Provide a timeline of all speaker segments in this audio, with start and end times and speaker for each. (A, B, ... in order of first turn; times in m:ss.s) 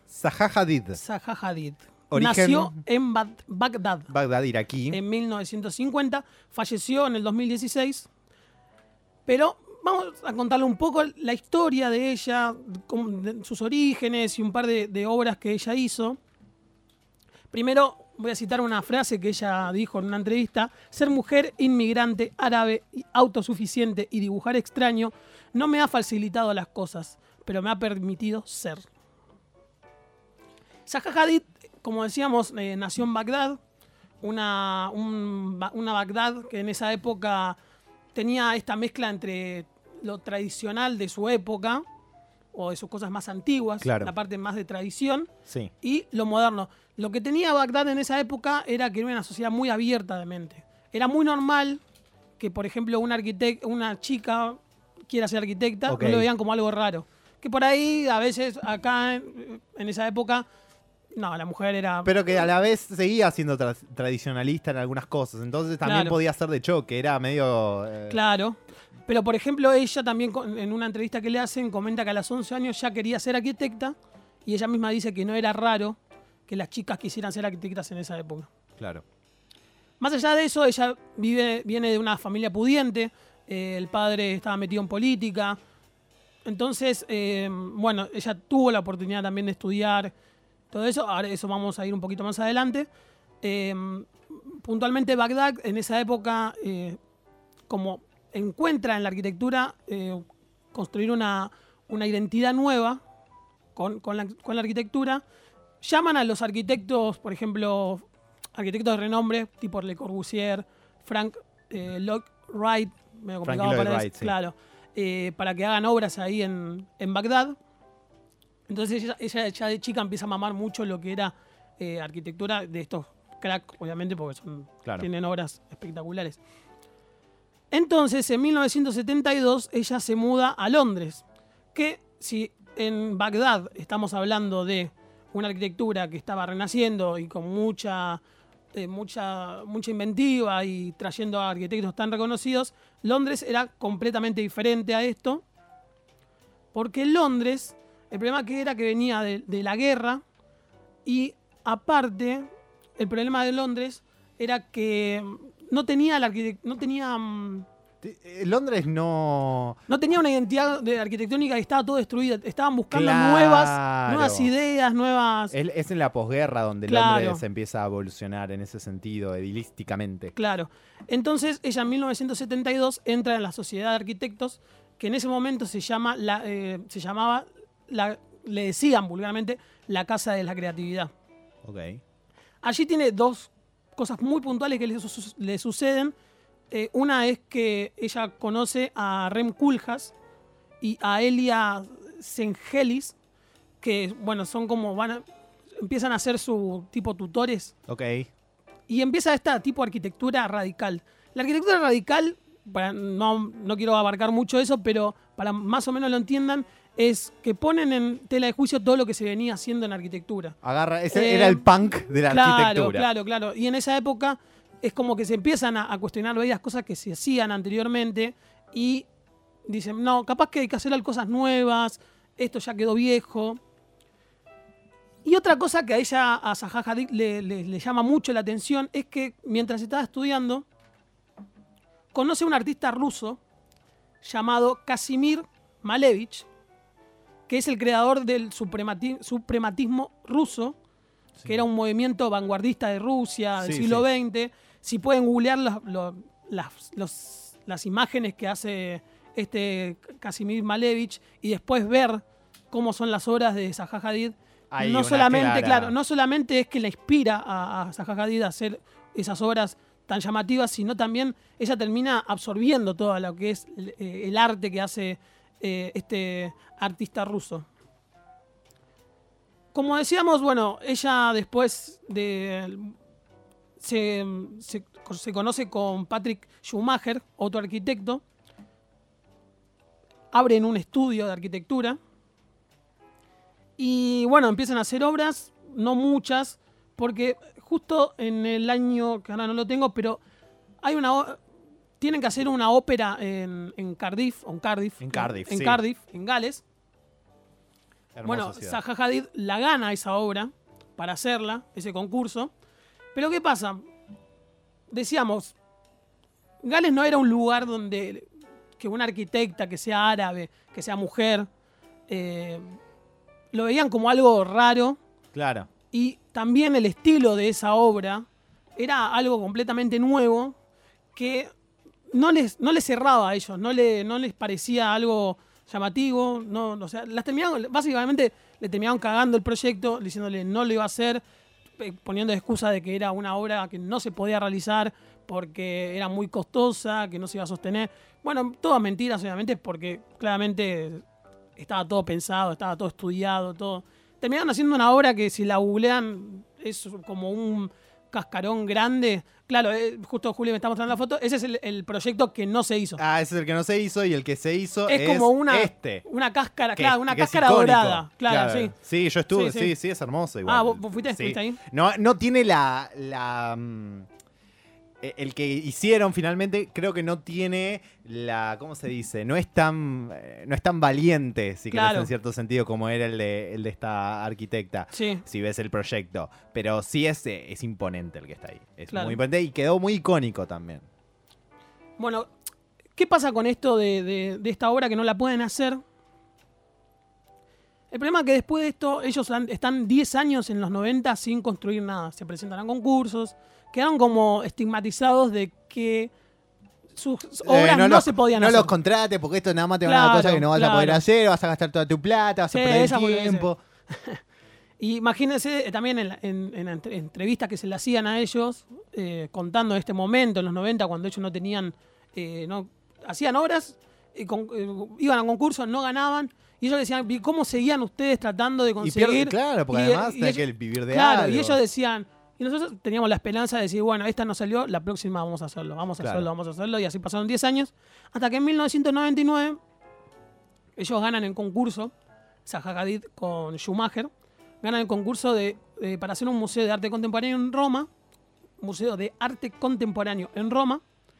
0:00.1-0:01.0 A
0:01.0-0:04.1 B
0:02.1-0:02.8 A
0:04.1-0:05.0 A
0:04.9-0:08.1 B
0:09.2-0:16.2 B
0:17.5-0:28.9 B
0:30.8-0:33.6 B
0:34.2-0:37.6 B
0:38.1-0:41.8 B
0:42.5-0:51.8 B
0:43.8-0:44.1 A
0:52.4-1:00.4 B
0:55.9-0:56.3 A
1:01.1-1:02.5 B
1:02.0-1:08.2 A
1:05.8-1:06.2 B
1:08.1-1:18.5 B
1:18.8-1:19.0 A
1:20.0-1:25.6 B
1:26.4-1:30.1 B
1:30.7-1:32.9 B
1:33.4-1:37.0 B
1:37.7-1:43.0 B
1:43.7-1:45.2 B
1:45.8-1:57.6 B
1:53.4-1:54.3 A
1:58.7-2:06.4 B
2:07.7-2:18.2 B
2:18.7-2:25.4 B
2:26.7-2:30.2 B
2:31.0-2:37.7 B
2:38.0-2:39.8 A
2:39.9-2:45.5 B
2:42.9-2:44.5 A
2:45.5-2:50.3 A
2:46.8-2:47.4 B
2:50.3-3:01.1 B
3:01.6-3:02.0 A
3:02.6-3:06.1 B
3:06.7-3:10.1 B
3:10.8-3:13.2 B
3:13.8-3:15.2 B
3:15.8-3:17.7 B
3:17.9-3:18.3 A
3:18.9-3:30.6 B
3:30.6-3:33.1 A
3:31.1-3:31.7 B
3:32.2-3:39.1 B
3:39.6-3:43.6 B
3:45.2-3:50.6 B
3:52.1-3:53.4 B
3:54.2-3:56.5 B
3:57.5-4:00.8 B
4:01.4-4:27.7 B
4:03.6-4:04.0 A
4:14.7-4:15.9 A
4:29.7-4:33.0 B
4:33.8-4:38.2 B
4:40.3-4:42.0 B
4:43.8-4:50.2 B
4:50.8-4:51.4 B
4:52.0-4:56.6 B
4:55.0-4:55.8 A
4:58.1-4:58.8 A
4:58.2-5:02.5 B
5:03.1-5:03.8 B
5:04.9-5:05.6 B
5:06.6-5:11.5 B
5:12.1-5:12.6 B
5:13.5-5:15.0 B
5:15.3-5:15.7 A
5:15.9-5:20.5 B
5:21.1-5:21.5 B
5:22.1-5:31.2 B
5:31.8-5:41.0 B
5:41.6-5:53.0 B
5:53.0-5:56.0 A
5:54.9-5:58.7 B
5:56.8-6:04.1 A
5:59.3-5:59.7 B
6:00.4-6:01.6 B
6:05.0-6:20.8 A
6:11.7-6:12.1 B
6:14.9-6:15.2 B
6:18.9-6:19.2 B
6:22.0-6:22.3 B
6:22.9-6:25.8 B
6:27.9-6:36.1 B
6:36.9-6:38.7 B
6:37.4-6:43.6 A
6:39.8-6:41.0 B
6:42.5-6:44.2 B
6:44.8-7:09.6 B
6:58.8-7:01.6 A
7:06.0-7:06.3 A
7:10.8-7:11.9 B
7:12.4-7:14.1 B
7:14.6-7:17.9 B
7:18.6-7:20.8 B